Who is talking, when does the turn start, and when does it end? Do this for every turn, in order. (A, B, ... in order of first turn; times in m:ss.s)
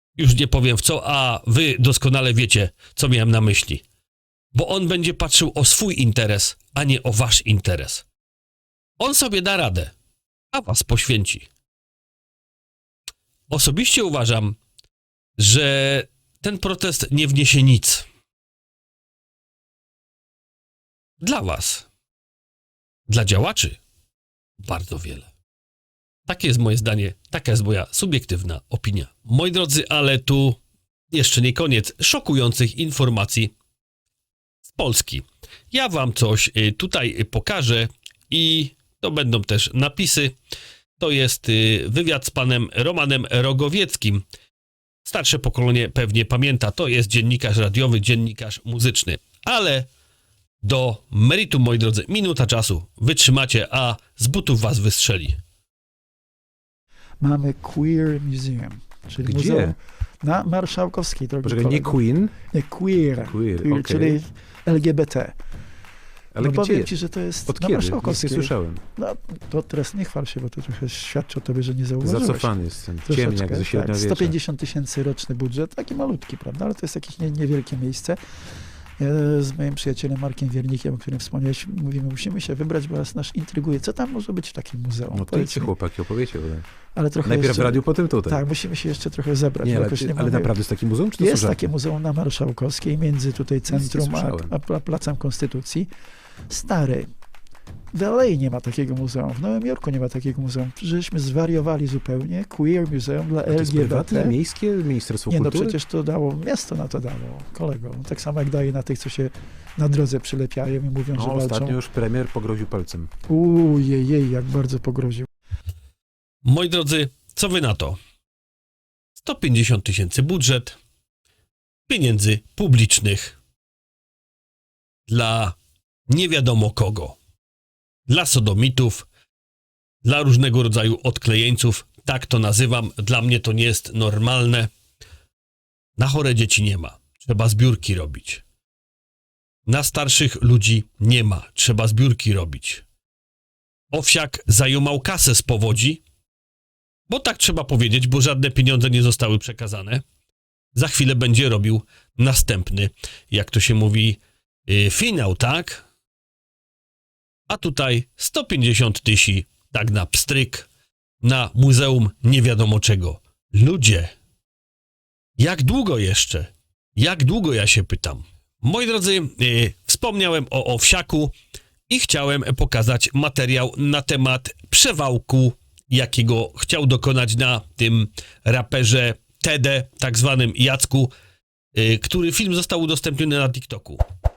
0:00.2-0:03.8 A
0:04.5-0:08.0 A
0:09.0-0:09.9 A
0:10.5-0:11.5 A
0:13.5-0:14.6 A
0:15.4-0:18.0 A
0:21.2-0:21.8 A
0:23.1-0:23.8 A
0:24.6-0:25.3 A
0:26.3-0:30.6 A
0:31.1-0:33.5 A
0:34.6-0:40.3 A
0:41.0-0:44.2 A
0:45.0-0:49.9 A
0:50.6-0:55.4 A
0:57.2-1:05.4 B
0:59.2-0:59.8 C
1:01.4-1:02.3 C
1:03.1-1:04.2 C
1:06.3-1:06.9 C
1:06.4-1:12.5 B
1:07.5-1:08.8 C
1:12.0-1:14.3 C
1:13.0-1:18.2 B
1:19.0-1:25.7 B
1:25.1-1:26.6 C
1:26.9-1:30.5 B
1:27.2-1:28.4 C
1:29.6-1:31.7 C
1:31.2-1:35.9 B
1:33.7-1:34.5 C
1:36.5-1:37.1 B
1:37.9-1:44.4 B
1:43.5-1:45.8 C
1:45.3-1:51.8 B
1:51.2-1:53.1 C
1:53.3-1:55.3 B
1:56.4-1:58.0 A
1:59.2-2:00.8 A
2:01.9-2:03.4 A
2:05.1-2:05.6 A
2:06.1-2:07.2 A
2:08.1-2:09.0 A
2:10.0-2:14.7 A
2:16.0-2:18.4 A
2:19.6-2:22.8 A
2:23.9-2:26.0 A
2:27.1-2:30.0 A
2:30.7-2:35.8 A
2:37.5-2:40.7 A
2:41.2-2:44.1 A
2:45.4-2:51.3 A
2:51.9-3:01.1 A
3:01.7-3:04.0 A